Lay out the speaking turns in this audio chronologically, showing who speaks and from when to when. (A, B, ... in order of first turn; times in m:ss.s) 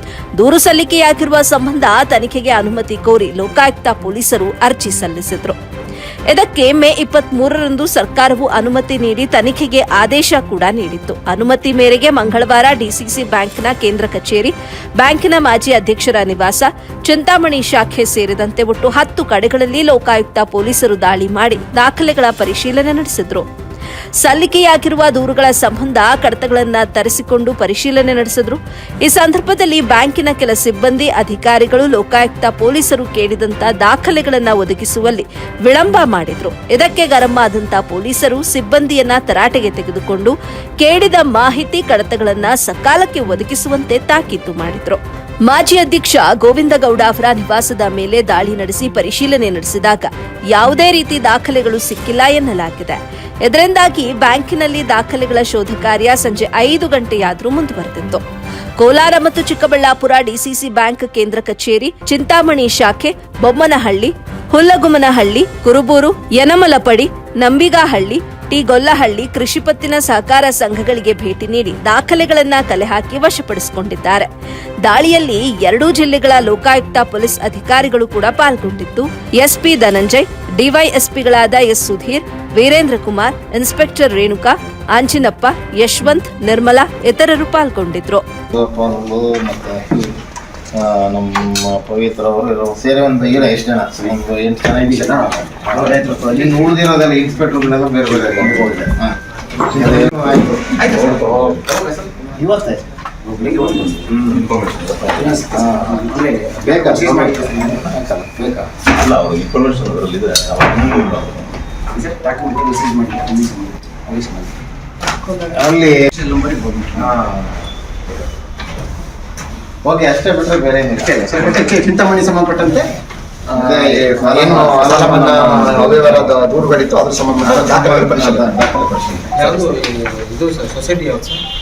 0:00.4-0:05.6 A
0:06.3-0:23.5 A
0:24.2-0:58.2 A
0:58.8-1:14.3 A
1:14.8-1:28.2 A
1:28.5-1:30.2 B
1:30.7-1:39.2 B
1:33.9-1:34.2 C
1:34.8-1:36.8 C
1:38.1-1:38.9 C
1:39.7-1:41.3 B
1:39.7-1:40.1 C
1:40.8-1:42.2 C
1:40.9-1:41.6 D
1:42.3-1:42.8 B
1:43.2-1:44.4 C
1:44.1-1:44.5 B
1:44.3-1:45.4 D
1:45.0-1:48.7 C
1:45.5-1:46.1 B
1:46.6-1:48.7 B
1:48.9-1:51.6 D
1:50.7-1:51.3 B
1:51.9-1:54.6 C
1:55.4-1:56.0 B
1:56.1-1:57.2 C
1:57.0-1:57.6 B
1:59.8-2:01.7 B
2:01.0-2:02.9 C
2:03.5-2:08.6 C
2:03.5-2:06.7 B
2:07.4-2:09.8 B
2:09.4-2:11.4 E